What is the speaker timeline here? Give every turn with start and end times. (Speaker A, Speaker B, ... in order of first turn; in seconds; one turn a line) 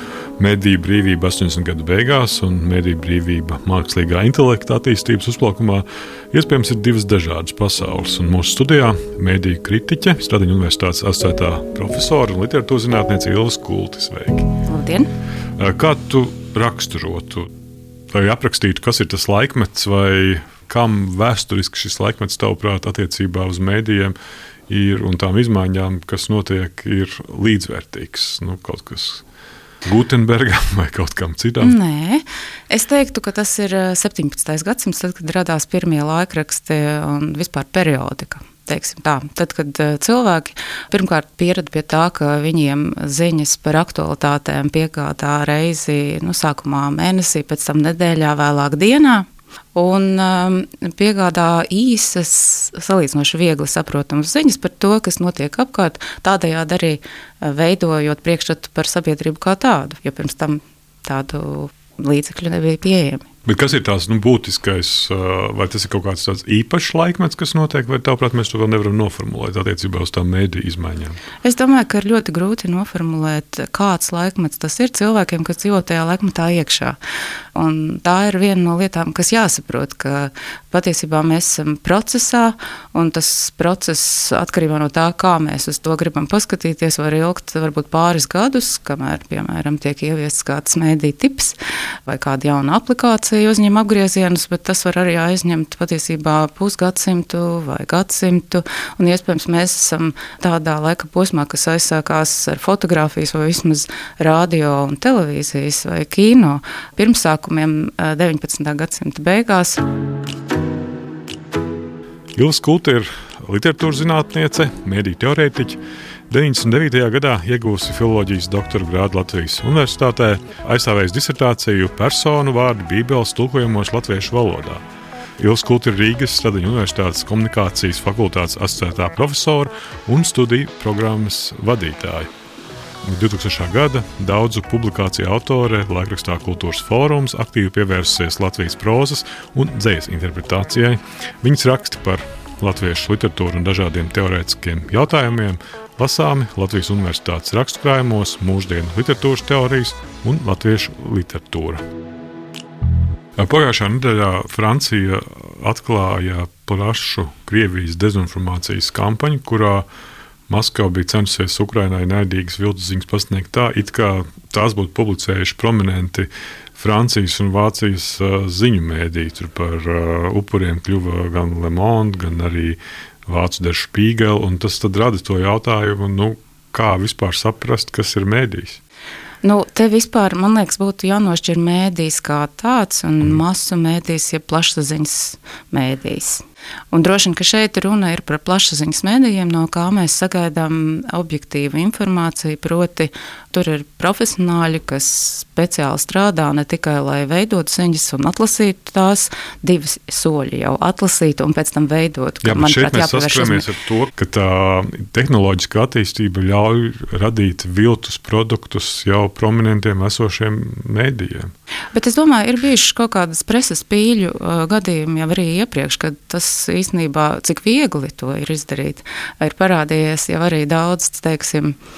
Speaker A: 0.4-14.5
Speaker B: 14.7-15.1
Speaker A: 15.6-17.5
Speaker A: 18.1-24.1
Speaker A: 24.7-29.2
Speaker A: 29.8-31.8
Speaker B: 31.6-63.3
Speaker A: 63.5-71.2
Speaker B: 71.5-77.0
Speaker B: 77.5-91.6
Speaker B: 92.1-109.8
Speaker A: 112.4-124.8
Speaker A: 125.4-132.3
Speaker A: 133.0-151.8
Speaker A: 153.4-159.8
Speaker A: 160.5-178.8
Speaker B: 179.4-203.7
Speaker A: 202.4-211.5
Speaker B: 211.9-221.8